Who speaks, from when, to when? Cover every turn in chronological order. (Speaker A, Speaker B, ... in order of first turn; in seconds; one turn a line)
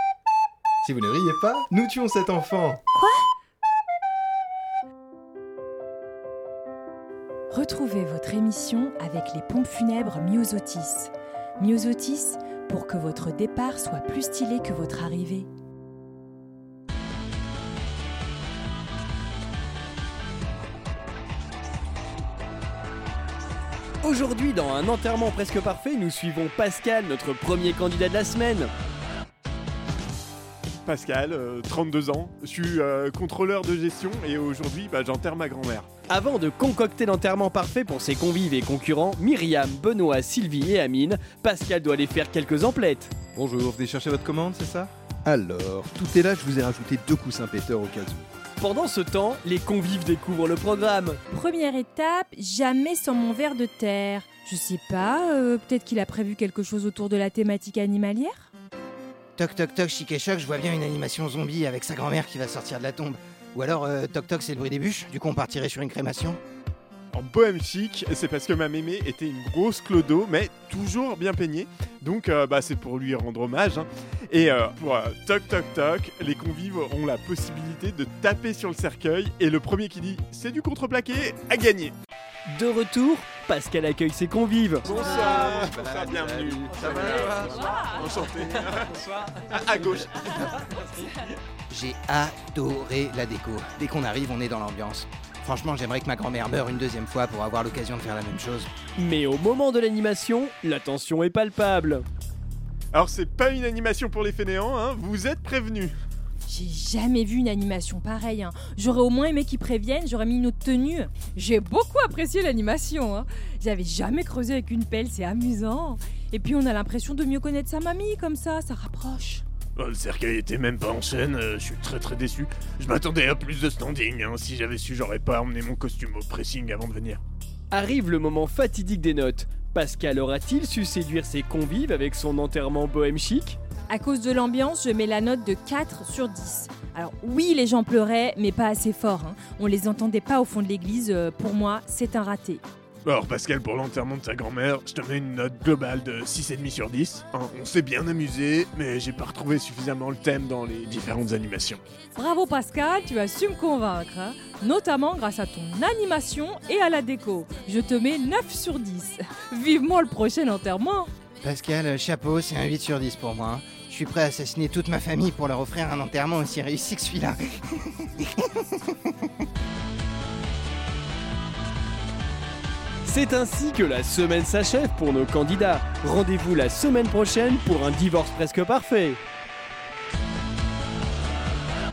Speaker A: 0.8-2.8
Speaker B: 3.0-3.3
Speaker B: 7.5-15.5
Speaker C: 24.0-28.7
Speaker D: 30.8-35.9
Speaker C: 36.1-43.1
Speaker A: 43.3-48.2
Speaker C: 48.6-51.2
Speaker B: 51.3-58.5
Speaker E: 59.4-66.4
Speaker D: 67.1-82.0
Speaker C: 82.5-84.8
Speaker D: 84.8-90.6
Speaker B: 85.0-85.4
Speaker A: 85.1-87.4
Speaker B: 86.9-88.2
Speaker B: 90.4-91.1
Speaker E: 91.7-98.7
Speaker C: 99.0-102.0
Speaker D: 102.9-106.0
Speaker B: 106.5-119.4
Speaker D: 119.8-127.2
Speaker C: 127.7-133.6
Speaker B: 133.9-142.6
Speaker D: 143.1-151.8
Speaker B: 152.2-161.1
Speaker E: 161.4-168.5
Speaker C: 173.1-179.2